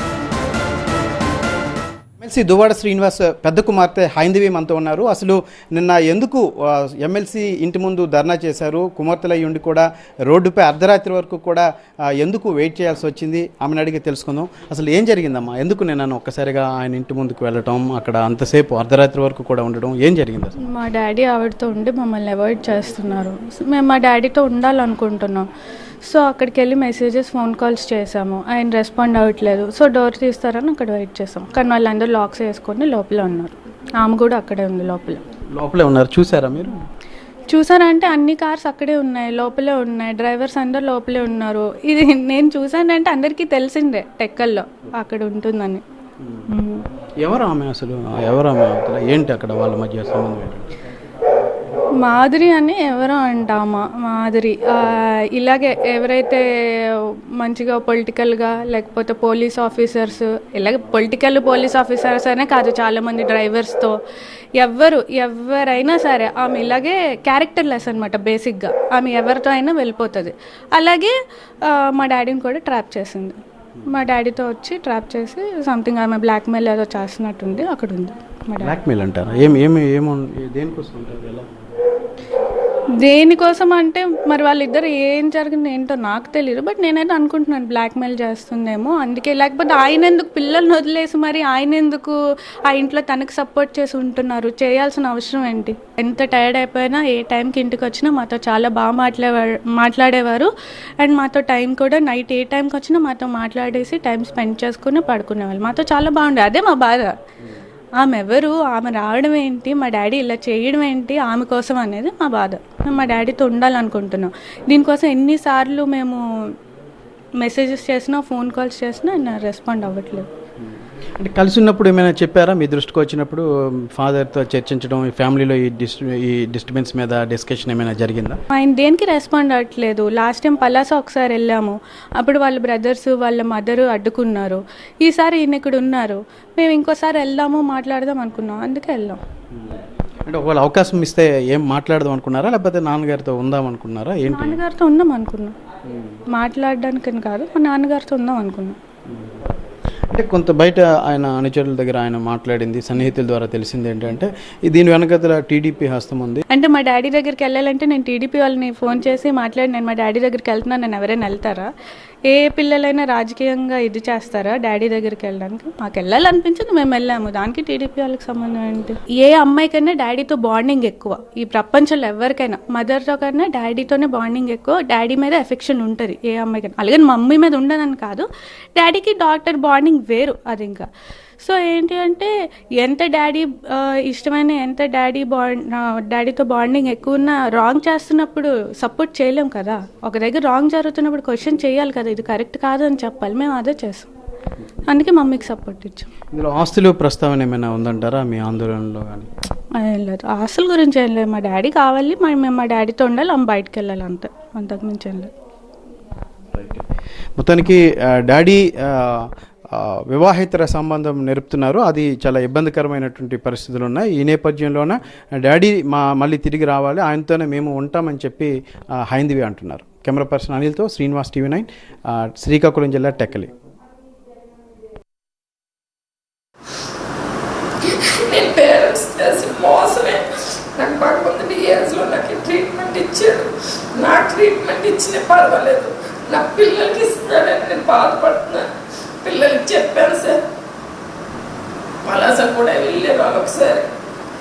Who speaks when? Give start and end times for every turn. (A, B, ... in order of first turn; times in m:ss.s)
0:02.2-0:20.6 A
0:20.6-0:25.5 B
0:26.0-0:35.2 B
0:35.5-0:36.8 A
0:37.5-0:45.8 B
0:46.2-0:46.5 A
0:46.5-0:46.9 B
0:47.2-0:50.7 A
0:52.0-1:04.0 B
1:04.6-1:18.8 B
1:18.6-1:21.5 A
1:23.0-1:47.1 B
1:48.0-1:56.2 B
1:57.4-2:00.3 B
2:01.2-2:08.4 A
2:08.5-2:19.2 B
2:20.3-2:24.6 A
2:24.3-2:25.5 B
2:26.3-2:28.8 B
2:29.1-2:29.4 A
2:30.1-2:36.4 A
2:36.5-2:41.7 B
2:42.3-3:00.9 B
3:01.4-3:14.1 B
3:14.9-3:16.1 B
3:16.3-3:19.3 A
3:19.8-3:25.3 B
3:26.5-3:43.5 A
3:47.8-3:58.7 C
3:59.2-4:00.4 C
4:02.0-4:03.9 C